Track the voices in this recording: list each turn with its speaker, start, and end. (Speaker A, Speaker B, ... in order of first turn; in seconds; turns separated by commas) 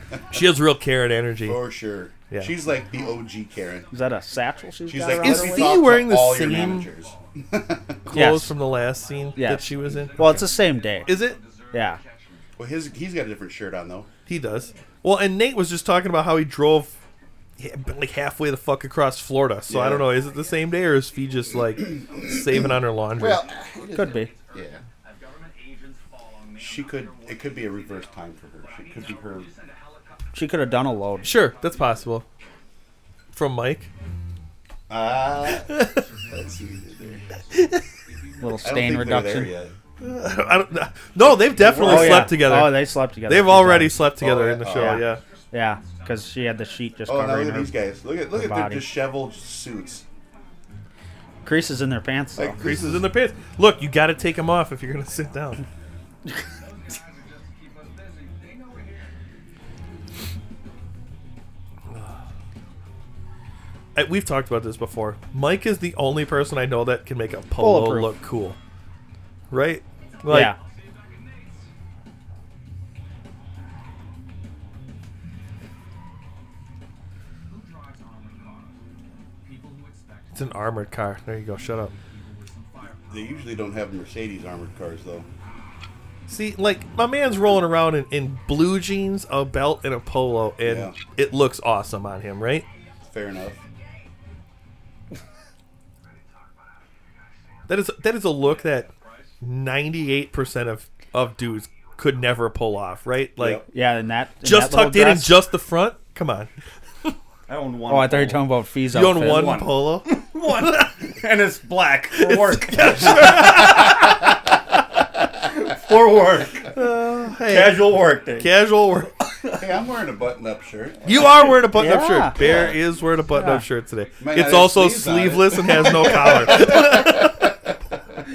Speaker A: 0.3-1.6, Speaker B: 1.4-3.9, Speaker C: 2.3-5.2, Speaker D: 3.9-5.7, Speaker B: 4.9-8.0, Speaker A: 5.2-6.9, Speaker C: 6.1-12.9, Speaker A: 8.1-10.5, Speaker D: 8.1-8.6, Speaker D: 9.3-11.2, Speaker A: 11.0-11.4, Speaker D: 11.7-12.0, Speaker B: 12.6-14.1, Speaker A: 14.3-16.9, Speaker C: 14.5-14.8, Speaker A: 17.6-23.4, Speaker B: 19.7-20.1, Speaker C: 19.8-32.3, Speaker B: 21.8-24.8, Speaker D: 23.9-24.3, Speaker B: 26.6-29.5, Speaker D: 30.3-31.4, Speaker A: 31.2-32.3, Speaker A: 33.3-33.9, Speaker B: 34.9-35.8, Speaker C: 35.1-39.4, Speaker A: 35.6-36.0, Speaker B: 36.3-37.2, Speaker A: 37.5-37.9, Speaker D: 38.4-39.5, Speaker B: 38.6-39.7, Speaker C: 40.0-41.6, Speaker A: 40.0-45.2, Speaker B: 41.3-42.3, Speaker D: 41.8-44.0, Speaker B: 44.2-45.0, Speaker D: 44.7-47.8, Speaker C: 45.0-47.4, Speaker B: 47.1-50.0, Speaker D: 48.3-48.9, Speaker C: 49.3-50.0, Speaker D: 51.5-52.6, Speaker B: 52.4-53.1, Speaker A: 52.6-55.6, Speaker C: 55.1-59.3, Speaker A: 64.0-68.6, Speaker D: 67.6-68.1, Speaker A: 69.5-70.5, Speaker C: 70.0-71.7, Speaker D: 70.3-70.6, Speaker C: 77.5-78.8, Speaker C: 79.4-80.9, Speaker A: 80.3-81.9, Speaker C: 81.7-83.6, Speaker B: 83.1-85.3, Speaker A: 86.3-92.7, Speaker B: 90.6-91.0, Speaker B: 93.1-93.6, Speaker A: 97.7-98.9, Speaker C: 98.4-99.4, Speaker A: 99.4-103.6, Speaker B: 103.4-103.7, Speaker D: 103.7-105.4, Speaker A: 104.4-106.5, Speaker E: 107.5-108.5, Speaker D: 107.9-109.6, Speaker A: 108.9-111.0, Speaker E: 109.2-114.4, Speaker A: 112.1-114.2, Speaker E: 115.3-116.8, Speaker A: 116.7-119.1, Speaker E: 117.5-118.5, Speaker B: 119.6-121.6, Speaker A: 121.0-127.5, Speaker D: 121.7-122.4, Speaker C: 121.9-124.6, Speaker B: 122.3-122.8, Speaker D: 123.3-123.7, Speaker B: 124.2-127.7, Speaker E: 125.9-126.4, Speaker C: 126.6-127.0